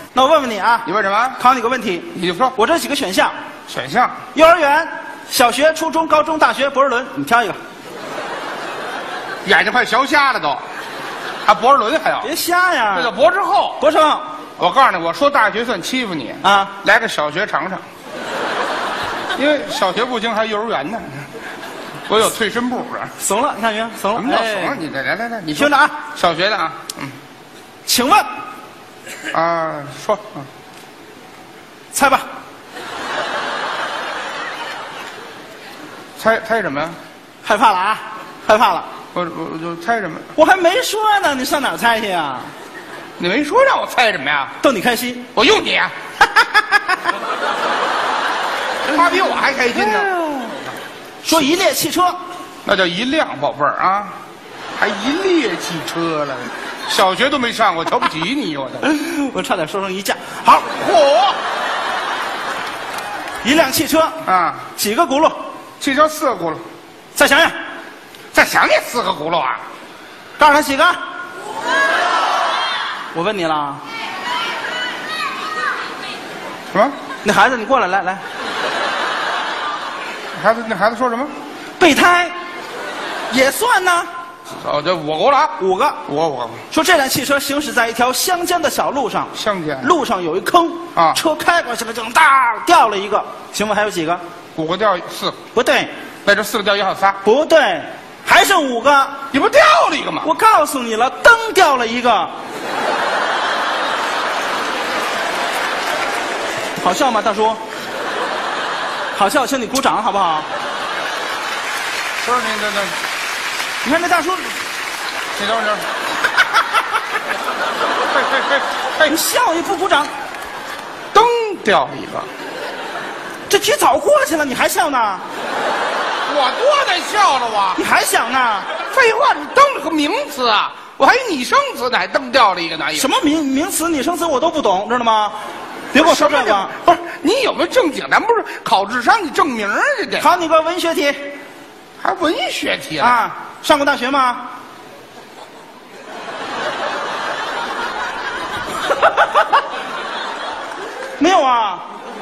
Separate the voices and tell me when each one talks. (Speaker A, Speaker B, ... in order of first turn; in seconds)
Speaker A: 0.1-3.3, 4.3-7.6, 12.2-13.1, 13.8-14.2, 16.4-16.8, 23.2-24.8, 25.5-26.0, 27.9-28.2, 31.9-32.3, 37.4-38.9, 40.4-42.5, 44.6-45.3, 48.9-50.3, 51.2-52.2, 58.8-60.8, 63.4-64.2, 64.7-65.4, 67.2-67.5, 70.4-71.0, 73.1-73.8, 77.2-78.2, 81.8-82.3, 83.3-84.1, 85.6-86.0, 86.7-94.2, 95.5-95.9, 97.2-99.2, 100.2-102.3, 106.8-107.6, 109.2-110.5, 113.8-114.5, 119.1-120.1, 123.5-125.2, 127.8-128.7, 132.9-135.4, 135.9-136.7, 140.2-141.3, 143.0-144.5, 151.2-151.8
Speaker B: 0.8-1.4, 2.1-2.5, 3.7-4.2, 9.4-10.6, 11.4-12.3, 12.9-13.8, 14.6-17.8, 19.4-21.2, 22.1-23.1, 24.1-27.1, 29.3-30.4, 36.2-37.0, 39.1-40.3, 43.2-44.5, 45.3-45.9, 48.9-50.1, 52.6-54.1, 54.8-58.8, 60.8-61.3, 64.2-64.7, 65.8-66.6, 68.3-69.6, 80.3-81.3, 84.6-85.5, 86.1-86.6, 89.3-89.9, 94.5-95.4, 96.2-97.2, 99.3-100.3, 112.2-112.9, 115.3-115.8, 118.1-119.1, 121.1-122.3, 126.3-127.8, 128.8-133.1, 135.9-140.3, 142.0-143.2